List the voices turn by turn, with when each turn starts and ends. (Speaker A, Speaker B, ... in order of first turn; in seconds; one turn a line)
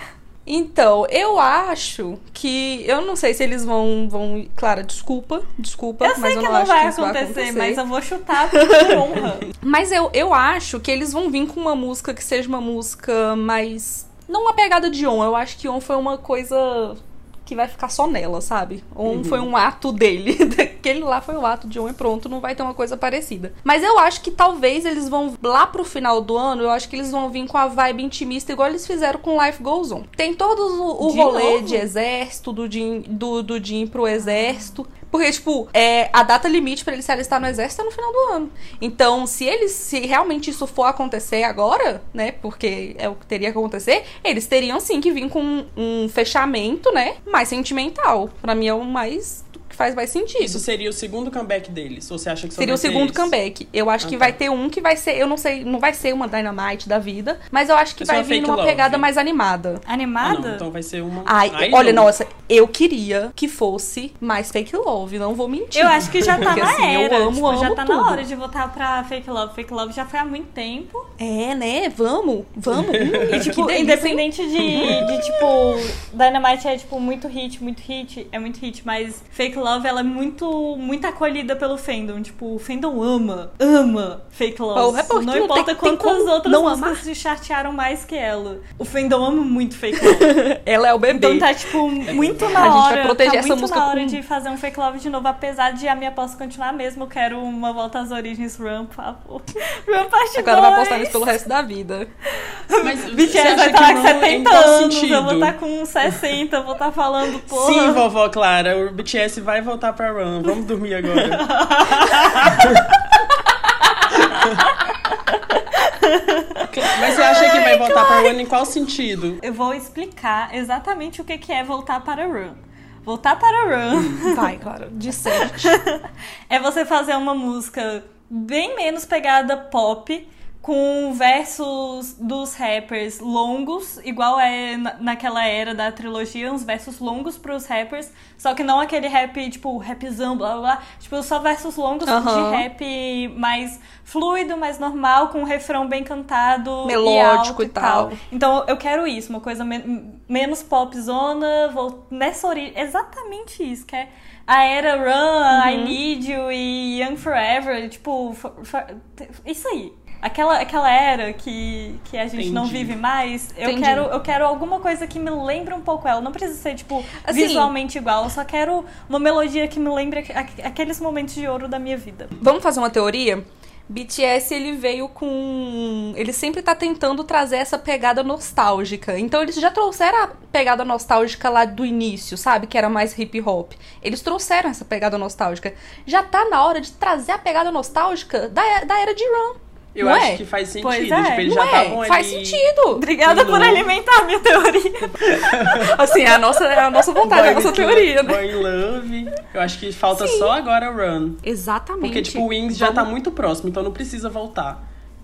Speaker A: 0.5-7.8
Speaker B: 6.0-9.5
Speaker A: 8.5-50.6
Speaker C: 19.1-19.5
Speaker B: 31.0-31.9
Speaker B: 34.2-34.8
Speaker C: 50.4-53.4
Speaker A: 52.6-59.8
Speaker C: 54.0-54.4
Speaker C: 58.0-59.1
Speaker B: 59.9-60.7
Speaker C: 60.2-62.1
Speaker A: 61.3-68.2
Speaker B: 65.7-71.1
Speaker C: 66.2-66.6
Speaker A: 71.2-75.8
Speaker C: 72.7-73.6
Speaker B: 73.2-90.4
Speaker C: 74.7-75.2
Speaker A: 84.8-87.0
Speaker A: 90.0-91.5
Speaker B: 91.1-101.3
Speaker C: 92.1-92.8
Speaker A: 92.1-94.2
Speaker A: 100.4-102.1
Speaker B: 102.3-108.0
Speaker C: 102.8-105.6
Speaker C: 107.5-113.0
Speaker B: 111.2-112.8
Speaker B: 114.1-118.0
Speaker C: 116.7-119.4
Speaker A: 116.8-118.3
Speaker B: 119.4-124.5
Speaker C: 123.9-124.2
Speaker A: 124.2-125.8
Speaker B: 125.3-172.3
Speaker A: 142.1-142.7
Speaker A: 146.8-148.2
Speaker A: 155.5-156.0
Speaker C: 162.3-163.0
Speaker A: 163.6-164.1
Speaker A: 167.2-167.7
Speaker A: 172.4-190.4
Speaker C: 189.9-192.7
Speaker B: 190.8-191.5
Speaker A: 191.5-193.1
Speaker B: 192.9-195.4
Speaker C: 193.2-193.9
Speaker C: 195.3-196.0
Speaker A: 195.5-198.4
Speaker C: 197.2-201.4
Speaker A: 200.1-200.5
Speaker A: 201.4-203.1
Speaker C: 202.0-204.8